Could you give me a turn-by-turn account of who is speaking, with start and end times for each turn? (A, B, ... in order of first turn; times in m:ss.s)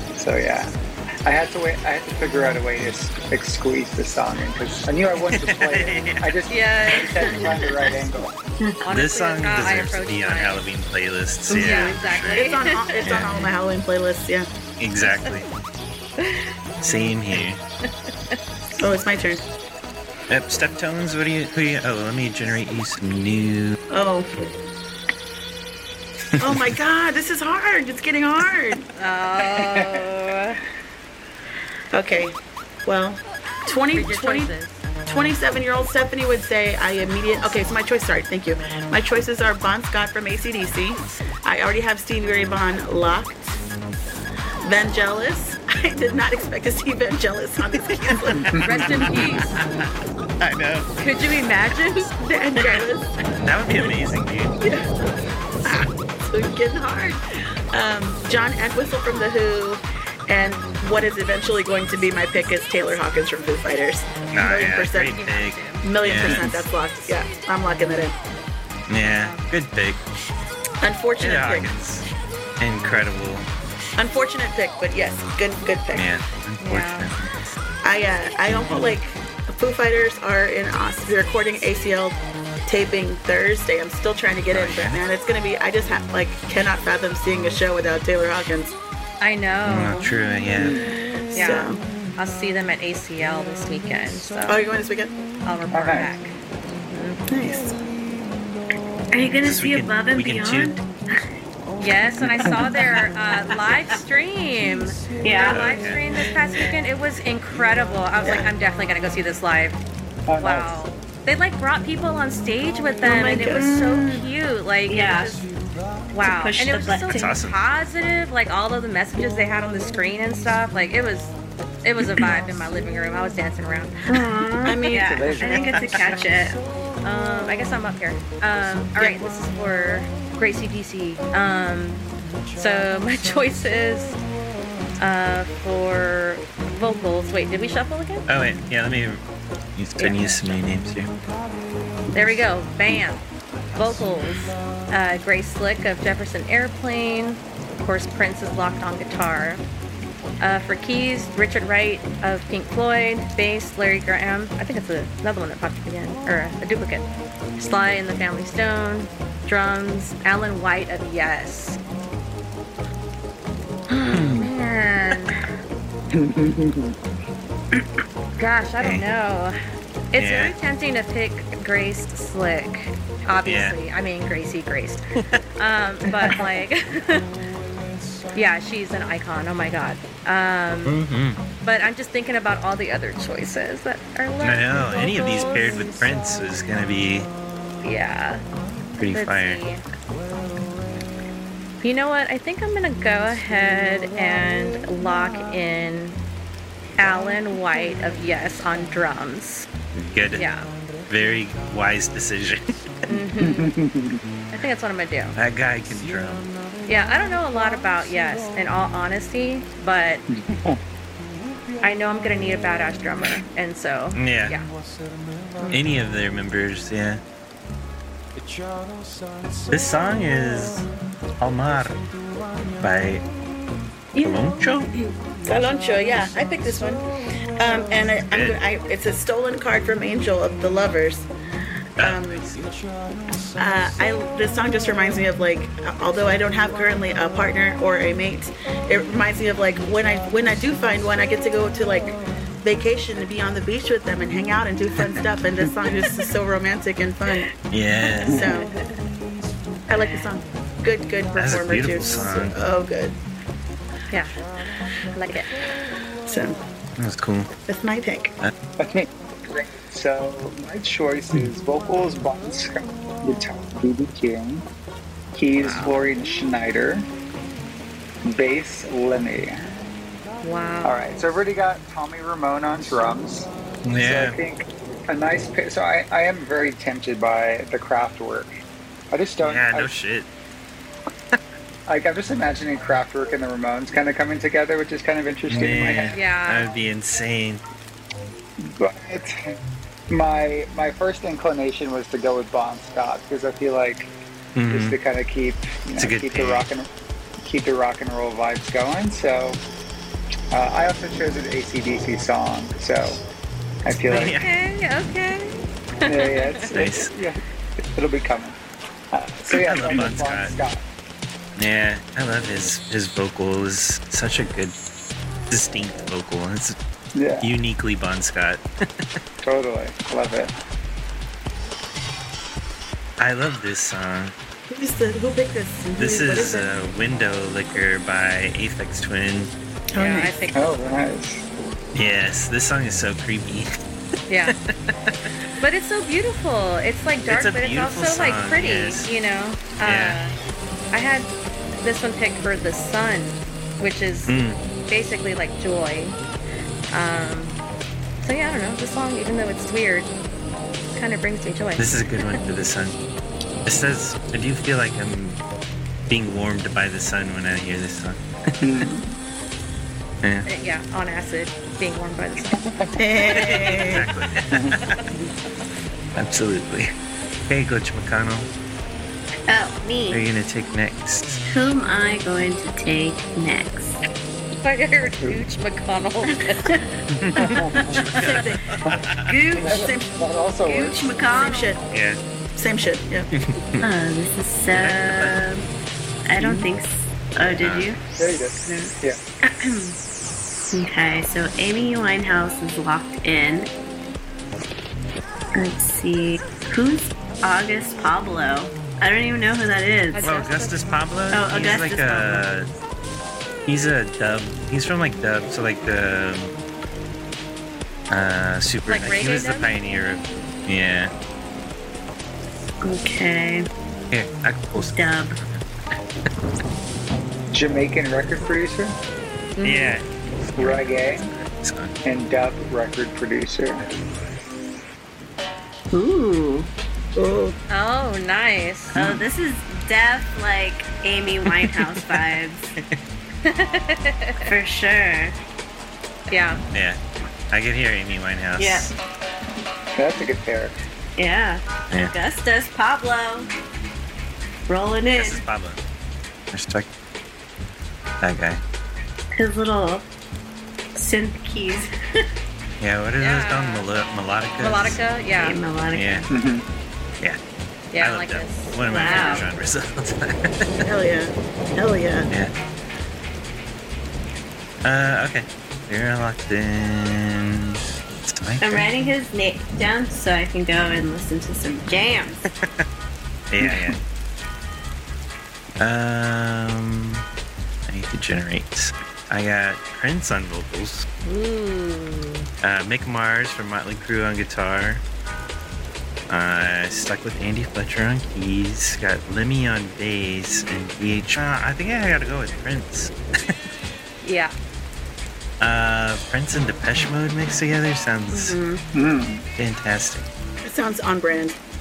0:00.2-0:00.7 A
0:01.2-0:08.4 A
0:05.3-0:06.3 B
0:06.5-0:07.4 C
0:08.8-0:10.6 C
0:08.9-0:12.5 B
0:11.5-0:12.0 D
0:11.5-0:13.0 C
0:12.3-0:14.5 E
0:13.0-0:13.5 B
0:14.8-0:15.5 B
0:16.2-0:16.4 C
0:16.8-0:17.6 B
0:17.8-0:18.4 C
0:18.8-0:19.4 E
0:20.3-0:23.8 B
0:23.9-0:24.6 E
0:26.4-0:28.9 E
0:29.0-0:30.6 C
0:29.5-0:30.1 A
0:31.9-0:43.6 E
0:33.9-0:34.8 C
0:44.6-0:48.9 E
0:47.8-0:49.8 B
0:48.6-0:49.6 C
0:50.4-0:50.9 B
0:51.0-0:52.1 C
0:52.1-0:53.2 E
0:53.4-0:54.6 B
0:55.6-0:57.2 E
0:57.7-1:05.2 E
1:04.3-1:06.5 B
1:04.9-1:05.9 C
1:05.8-1:08.2 E
1:06.2-1:06.5 A
1:08.9-1:10.0 B
1:09.1-1:09.5 C
1:10.8-1:11.7 E
1:11.2-1:12.1 B
1:12.6-1:13.5 B
1:14.0-1:16.1 E
1:15.9-1:17.3 B
1:16.6-1:17.1 C
1:17.8-1:28.8 E
1:18.5-1:18.9 B
1:24.5-1:25.0 B
1:29.2-1:30.1 C
1:29.7-1:30.8 B
1:30.6-1:30.9 A
1:31.3-1:31.8 E
1:31.3-1:34.6 C
1:34.5-1:35.1 E
1:35.4-1:36.4 C
1:35.7-1:36.1 A
1:36.9-1:37.2 C
1:37.3-1:37.8 E
1:39.1-1:40.8 D
1:39.4-1:40.8 B
1:41.8-1:49.8 C
1:42.2-1:42.7 A
1:45.2-1:45.8 D
1:45.4-1:46.1 B
1:48.2-1:48.5 E
1:50.3-1:50.8 A
1:50.4-1:55.5 C
1:53.0-1:54.3 D
1:53.1-1:53.6 E
1:54.9-1:55.5 D
1:56.1-2:04.2 C
1:56.2-1:57.4 D
1:57.1-1:57.6 B
2:04.1-2:06.6 D
2:04.6-2:05.6 E
2:05.1-2:05.9 A
2:05.5-2:05.8 B
2:07.0-2:12.0 C
2:12.6-2:14.2 C
2:15.0-2:18.2 C
2:18.3-2:19.2 B
2:19.8-2:21.1 B
2:20.0-2:20.6 C
2:22.1-2:23.2 C
2:23.7-2:29.6 C
2:30.4-2:41.8 C
2:43.9-2:45.4 C
2:44.1-2:44.4 B
2:46.1-2:47.0 A
2:48.4-2:49.6 C
2:50.1-2:55.0 C
2:50.2-2:50.6 B
2:53.4-2:53.8 B
2:55.6-2:57.3 C
2:58.3-3:01.0 C
3:00.9-3:01.4 B
3:01.6-3:05.9 C
3:04.4-3:07.3 B
3:07.8-3:08.4 C
3:09.0-3:09.6 B
3:09.1-3:09.8 C
3:11.8-3:16.2 C
3:17.0-3:19.7 C
3:20.0-3:20.5 B
3:20.4-3:20.7 C
3:21.1-3:22.7 B
3:23.1-3:23.7 C
3:23.1-3:24.2 A
3:24.5-3:25.4 C
3:25.4-3:26.5 B
3:26.9-3:30.2 C
3:30.3-3:30.8 A
3:31.8-3:34.7 C
3:34.2-3:34.6 B
3:35.7-3:37.2 B
3:39.7-3:40.9 B
3:41.4-3:42.0 B
3:42.8-3:43.2 B
3:44.2-3:44.4 E
3:44.2-3:44.9 B
3:44.9-3:47.0 E
3:47.6-3:51.3 E
3:48.3-3:48.6 B
3:52.0-3:52.4 E
3:52.0-3:52.7 B
3:53.6-4:07.5 E
4:07.7-4:08.5 B
4:08.2-4:08.5 A
4:08.2-4:08.7 E
4:09.9-4:13.2 E
4:11.4-4:12.6 B
4:15.1-4:15.5 C
4:16.3-4:16.6 E
4:17.0-4:17.5 B
4:17.7-4:18.3 E
4:18.8-4:24.6 A
4:25.3-4:27.1 A
4:25.6-4:26.0 C
4:28.2-4:29.6 A
4:30.4-4:31.0 C
4:30.8-4:38.5 A
4:33.8-4:34.4 B
4:39.1-4:39.9 A
4:39.4-4:40.3 B
4:41.9-4:46.2 A
4:45.5-4:47.6 B
4:46.1-4:46.7 C
4:48.6-4:49.6 A
4:50.1-4:54.1 A
4:54.6-4:55.0 B
4:54.7-4:56.9 A
4:56.0-4:56.7 B
4:57.4-4:59.6 A
5:00.5-5:03.2 A
5:03.8-5:04.4 A
5:04.1-5:06.7 C
5:04.1-5:04.5 B
5:06.0-5:08.6 A
5:06.7-5:07.1 B
5:09.1-5:10.8 A
5:09.5-5:10.5 B
5:11.6-5:14.8 B
5:15.5-5:16.8 B
5:17.2-5:17.5 A
5:17.4-5:18.6 B
5:19.4-5:20.5 A
5:23.2-5:24.3 B
5:24.7-5:26.7 E
5:26.0-5:29.5 B
5:29.9-5:30.4 E
5:30.0-5:30.7 C
5:30.5-5:31.5 A
5:32.0-5:33.7 B
5:34.3-5:34.6 C
5:34.5-5:35.1 B
5:35.6-5:40.3 C
5:37.3-5:39.1 B
5:39.8-5:40.2 B
5:40.9-5:44.4 C
5:44.3-5:44.6 B
5:44.9-5:46.2 C
5:46.9-5:47.6 C
5:48.2-5:50.1 C
5:50.9-5:52.4 C
5:51.8-5:53.0 B
5:53.7-5:55.4 B
5:56.1-5:58.2 B
5:58.6-5:59.1 A
6:00.5-6:02.6 C
6:02.5-6:03.2 A
6:03.0-6:04.1 E
6:03.3-6:05.0 B
6:04.5-6:05.3 A
6:06.2-6:06.9 B
6:07.5-6:08.5 B
6:09.5-6:10.2 D
6:10.1-6:11.4 B
6:11.5-6:14.0 D
6:14.6-6:16.8 C
6:16.3-6:16.8 D
6:17.2-6:19.3 B
6:17.4-6:18.1 A
6:17.9-6:18.8 E
6:19.3-6:19.7 D
6:19.4-6:21.8 E
6:19.6-6:21.1 A
6:20.7-6:21.7 D
6:21.9-6:22.2 B
6:22.6-6:23.3 E
6:23.4-6:23.8 B
6:23.8-6:25.7 D
6:24.7-6:25.4 B
6:26.3-6:29.0 D
6:26.4-6:26.7 A
6:27.6-6:27.9 B
6:28.2-6:29.2 A
6:29.5-6:30.0 D
6:30.7-6:33.7 D
6:35.6-6:40.3 D
6:40.1-6:41.0 C
6:40.2-6:42.7 B
6:41.3-6:42.4 D
6:41.6-6:42.1 C
6:43.7-6:46.6 B
6:48.1-6:51.1 B
6:48.9-6:49.7 C
6:52.8-6:53.7 D
6:54.1-6:55.6 B
6:54.8-6:55.4 D
6:57.5-6:59.0 A
6:59.6-7:00.0 C
6:59.6-7:01.9 B
7:00.6-7:01.3 A
7:02.0-7:03.8 A
7:05.9-7:06.7 D
7:07.2-7:07.6 E
7:07.7-7:08.9 C
7:08.9-7:12.7 D
7:11.6-7:12.0 B
7:13.4-7:14.5 C
7:14.4-7:15.4 D
7:16.3-7:16.6 C
7:16.7-7:17.0 B
7:17.5-7:18.9 B
7:18.6-7:18.9 D
7:20.0-7:20.8 A
7:21.2-7:23.5 D
7:24.7-7:25.4 D
7:25.1-7:25.8 B
7:26.5-7:26.9 B
7:28.2-7:28.6 B
7:29.4-7:30.1 D
7:31.0-7:31.9 D
7:32.8-7:35.0 B
7:33.2-7:33.9 C
7:34.6-7:35.6 C
7:35.4-7:36.3 D
7:35.9-7:36.3 B
7:36.3-7:36.6 A
7:37.9-7:39.5 C
7:38.0-7:40.8 B
7:38.9-7:39.5 D
7:40.8-7:42.3 E
7:44.8-7:48.9 B
7:48.6-7:52.5 D
7:53.5-7:54.0 B
7:55.8-7:57.2 B
7:57.9-8:01.1 B
8:01.2-8:02.5 C
8:02.6-8:05.0 B
8:06.3-8:13.6 B
8:14.2-8:14.5 C
8:15.6-8:18.6 B
8:18.3-8:18.8 D
8:18.9-8:19.4 A
8:19.6-8:20.3 B
8:20.6-8:21.6 E